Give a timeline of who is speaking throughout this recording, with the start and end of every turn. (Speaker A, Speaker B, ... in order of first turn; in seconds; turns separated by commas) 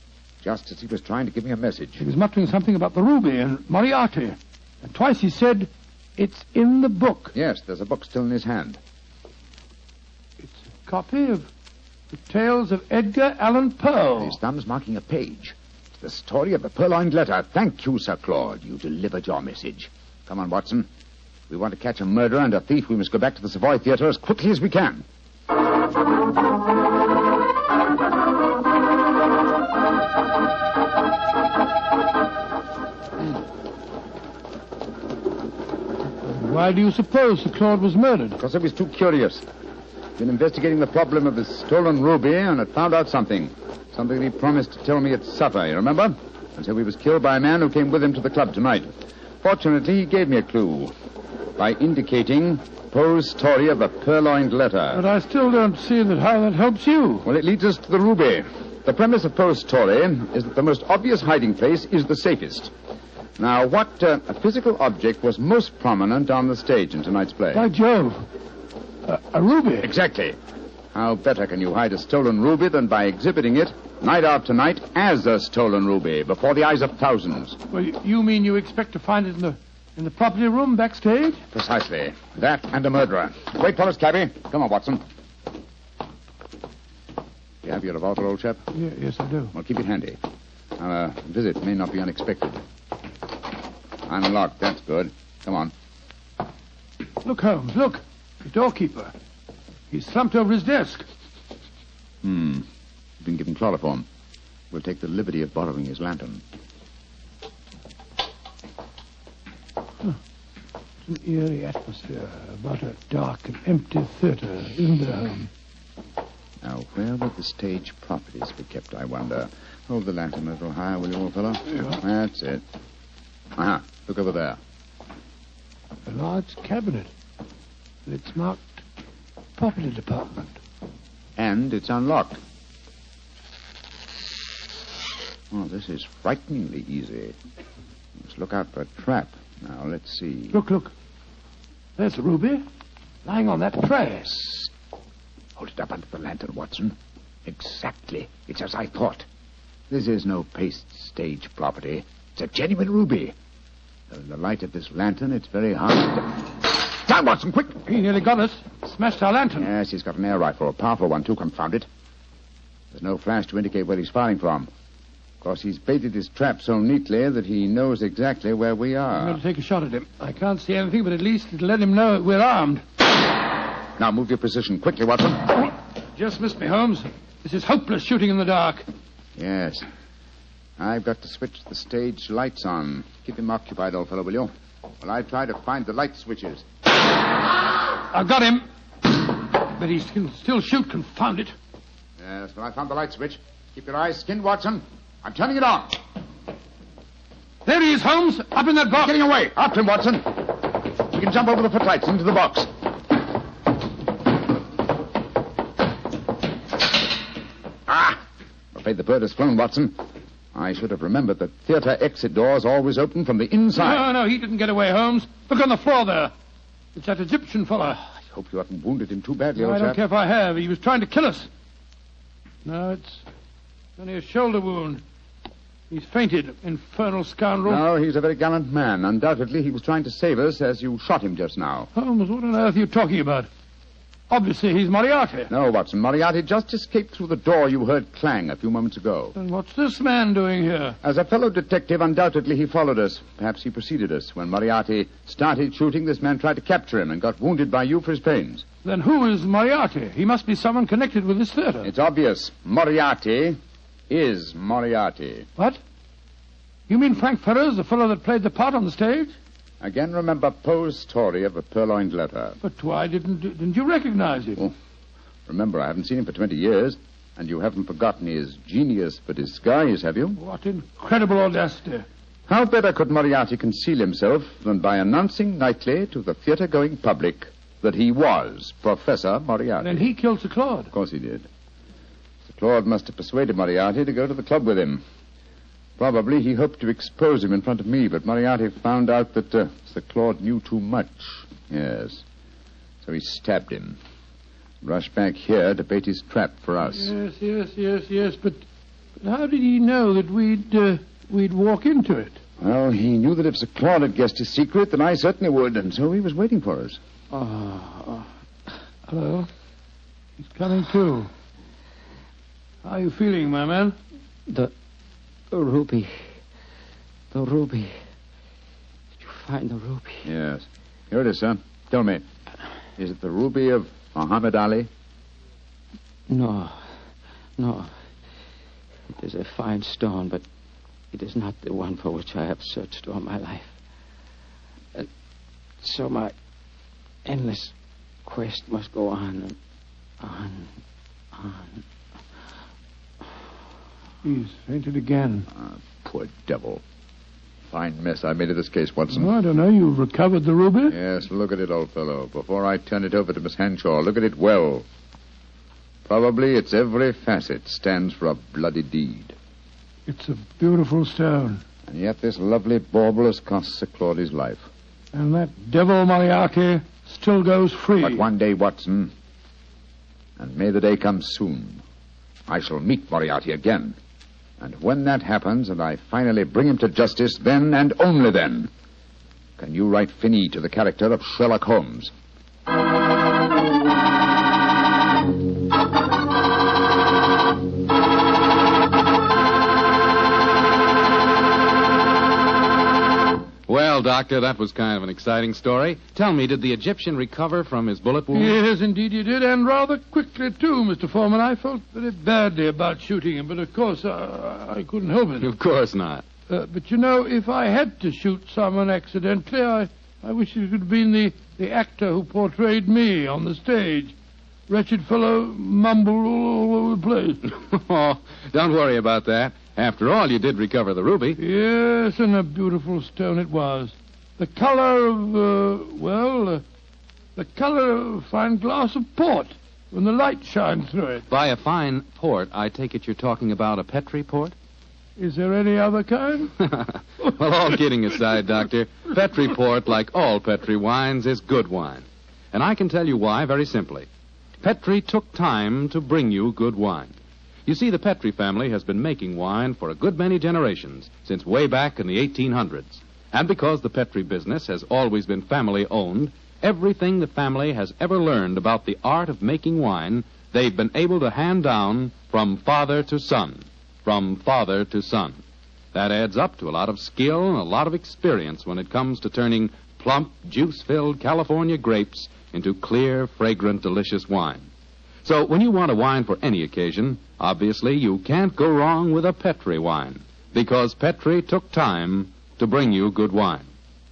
Speaker A: 0.4-2.0, Speaker B: 2.0-7.3, Speaker A: 7.3-8.8, Speaker B: 10.4-11.5, Speaker B: 12.1-14.3, Speaker A: 14.2-20.9, Speaker A: 21.5-25.0, Speaker B: 36.2-38.4, Speaker A: 38.4-39.5, Speaker A: 40.2-50.9, Speaker A: 51.6-55.0, Speaker B: 54.9-57.2, Speaker A: 57.2-62.7, Speaker A: 63.4-67.7, Speaker B: 67.5-68.2, Speaker B: 69.0-69.9, Speaker A: 69.8-70.4, Speaker A: 70.9-77.6, Speaker B: 77.7-81.4, Speaker A: 81.5-85.0, Speaker A: 87.6-88.7, Speaker B: 88.7-89.5, Speaker A: 89.5-90.2, Speaker A: 90.8-92.6, Speaker A: 94.0-95.7, Speaker B: 97.2-99.1, Speaker B: 99.9-101.0, Speaker A: 102.2-102.7, Speaker A: 103.2-104.0, Speaker A: 104.7-106.4, Speaker B: 111.1-115.5, Speaker A: 116.6-122.6, Speaker A: 123.5-124.6, Speaker B: 126.1-127.1, Speaker B: 128.1-128.8, Speaker B: 129.6-130.6, Speaker A: 131.4-132.4, Speaker A: 135.5-137.4, Speaker A: 138.2-140.6, Speaker B: 140.5-140.9, Speaker B: 142.0-142.6, Speaker B: 143.2-144.4, Speaker A: 144.3-144.7, Speaker A: 145.6-149.2, Speaker A: 149.9-153.3, Speaker A: 154.1-157.8, Speaker B: 157.9-159.7, Speaker A: 159.6-161.9, Speaker A: 162.9-164.7, Speaker A: 165.4-169.4, Speaker B: 169.2-172.8, Speaker A: 174.0-175.7, Speaker B: 176.1-178.8, Speaker A: 179.4-179.8, Speaker A: 180.8-186.6, Speaker B: 188.1-188.6, Speaker B: 189.4-191.5, Speaker A: 192.2-196.0, Speaker B: 197.7-199.1, Speaker A: 198.9-202.7, Speaker A: 207.9-208.2, Speaker A: 208.7-210.0, Speaker A: 210.5-214.0, Speaker B: 213.8-216.3, Speaker B: 216.9-218.0, Speaker A: 218.1-220.0, Speaker B: 219.6-221.5, Speaker B: 222.6-223.2, Speaker B: 224.0-225.0, Speaker B: 225.9-227.8, Speaker A: 227.6-231.9, Speaker B: 231.9-233.5, Speaker B: 234.3-235.5, Speaker A: 235.5-239.3, Speaker B: 239.3-240.9, Speaker A: 241.0-248.6, Speaker B: 248.8-251.9, Speaker A: 251.8-255.5, Speaker B: 256.9-259.3, Speaker A: 259.8-262.6, Speaker B: 262.6-264.6, Speaker A: 265.5-270.4, Speaker B: 270.4-272.1, Speaker A: 272.5-280.1, Speaker B: 279.8-280.9, Speaker A: 280.9-281.5, Speaker A: 282.4-285.0, Speaker A: 286.0-292.2, Speaker A: 293.0-294.0, Speaker A: 294.8-297.1, Speaker B: 296.9-298.6, Speaker B: 299.2-302.4, Speaker A: 302.6-307.0, Speaker C: 307.3-308.2, Speaker B: 309.1-309.5, Speaker B: 310.4-311.3, Speaker B: 312.8-313.9, Speaker C: 315.5-316.3, Speaker C: 317.3-317.9, Speaker C: 319.2-320.2, Speaker A: 320.2-322.2, Speaker A: 323.0-324.9, Speaker C: 326.3-326.9, Speaker C: 327.6-327.9, Speaker C: 329.1-330.4, Speaker C: 331.1-333.7, Speaker C: 335.8-336.3, Speaker C: 337.2-337.7, Speaker C: 338.3-339.6, Speaker C: 340.2-340.6, Speaker C: 341.4-341.6, Speaker B: 344.2-345.5, Speaker A: 345.5-346.8, Speaker A: 347.7-349.3, Speaker B: 349.1-350.9, Speaker A: 350.9-354.9, Speaker A: 356.0-359.4, Speaker B: 360.1-361.6, Speaker A: 361.9-364.7, Speaker B: 365.1-368.2, Speaker A: 368.0-369.1, Speaker A: 370.4-371.8, Speaker A: 372.5-373.9, Speaker A: 374.6-378.7, Speaker A: 379.6-382.1, Speaker D: 393.7-398.6, Speaker B: 398.3-405.5, Speaker D: 405.4-406.2, Speaker B: 406.5-414.1, Speaker B: 414.7-417.4, Speaker D: 417.4-421.4, Speaker B: 421.4-426.6, Speaker B: 427.4-431.2, Speaker D: 431.3-434.5, Speaker B: 435.2-436.6, Speaker D: 436.6-444.1, Speaker D: 444.6-447.1, Speaker D: 447.6-465.4, Speaker D: 465.9-474.7, Speaker D: 475.2-483.7